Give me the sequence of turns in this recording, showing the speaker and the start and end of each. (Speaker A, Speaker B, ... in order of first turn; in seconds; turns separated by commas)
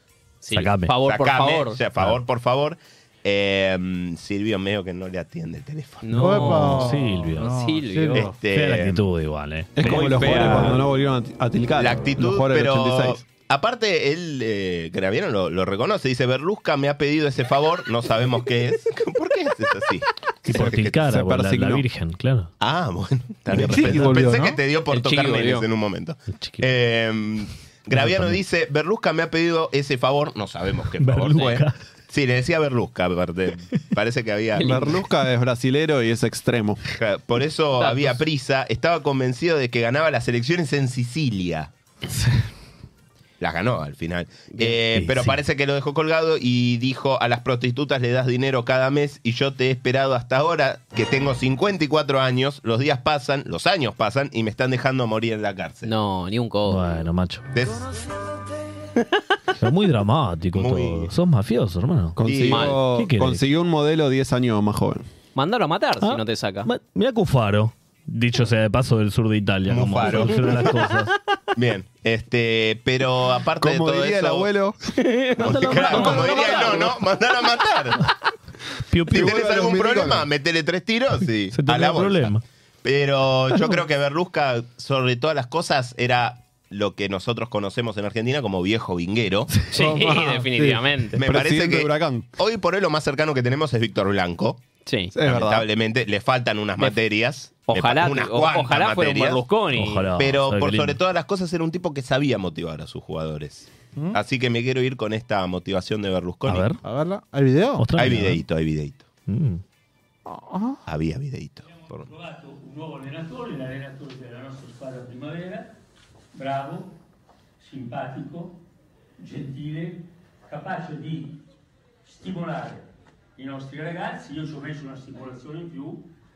Speaker A: 0.4-1.8, Speaker B: 0.5-0.9, Speaker C: 1.0-6.1, Speaker A: 6.0-8.3, Speaker B: 6.1-7.6, Speaker D: 6.1-8.4, Speaker C: 8.1-9.0, Speaker B: 8.5-10.8, Speaker E: 9.8-13.2, Speaker A: 9.9-10.7, Speaker C: 10.1-10.7, Speaker C: 11.8-21.0, Speaker B: 20.4-22.5, Speaker E: 20.5-21.8, Speaker C: 22.6-34.9, Speaker D: 23.5-24.6, Speaker B: 23.6-24.1, Speaker A: 24.9-25.6, Speaker B: 26.3-26.7, Speaker B: 27.9-28.4, Speaker B: 31.0-31.8, Speaker A: 34.6-34.9, Speaker E: 34.6-36.8, Speaker C: 37.0-41.7, Speaker A: 37.8-38.2, Speaker C: 43.4-55.9, Speaker B: 44.9-45.4, Speaker A: 55.8-57.1, Speaker B: 56.7-57.4, Speaker C: 57.5-57.9, Speaker B: 59.6-62.2, Speaker C: 60.5-61.1, Speaker E: 62.2-65.0, Speaker C: 62.2-62.7, Speaker A: 62.5-62.8, Speaker B: 62.8-63.4, Speaker A: 65.3-66.7, Speaker B: 66.0-71.1, Speaker C: 69.7-70.8, Speaker C: 71.5-74.5, Speaker E: 73.6-74.8, Speaker A: 75.0-76.9, Speaker B: 75.4-76.9, Speaker C: 75.4-78.1, Speaker B: 78.9-79.3, Speaker E: 79.1-80.3, Speaker C: 79.1-82.3, Speaker B: 81.5-82.4, Speaker C: 82.8-89.5, Speaker A: 89.7-91.2, Speaker D: 89.7-90.8, Speaker C: 91.2-94.6, Speaker E: 91.2-92.3, Speaker A: 94.9-95.1, Speaker E: 95.1-95.7, Speaker C: 95.2-99.4, Speaker A: 97.7-100.1, Speaker B: 99.7-101.0, Speaker C: 100.2-106.7, Speaker B: 106.5-106.8, Speaker D: 106.8-107.8, Speaker B: 107.8-108.4, Speaker C: 108.0-109.1, Speaker B: 109.3-109.6, Speaker D: 110.3-110.8, Speaker C: 110.9-112.1, Speaker F: 111.9-115.7, Speaker F: 116.3-116.9, Speaker F: 117.6-118.6, Speaker F: 119.2-121.4, Speaker F: 122.1-122.8, Speaker F: 123.4-126.0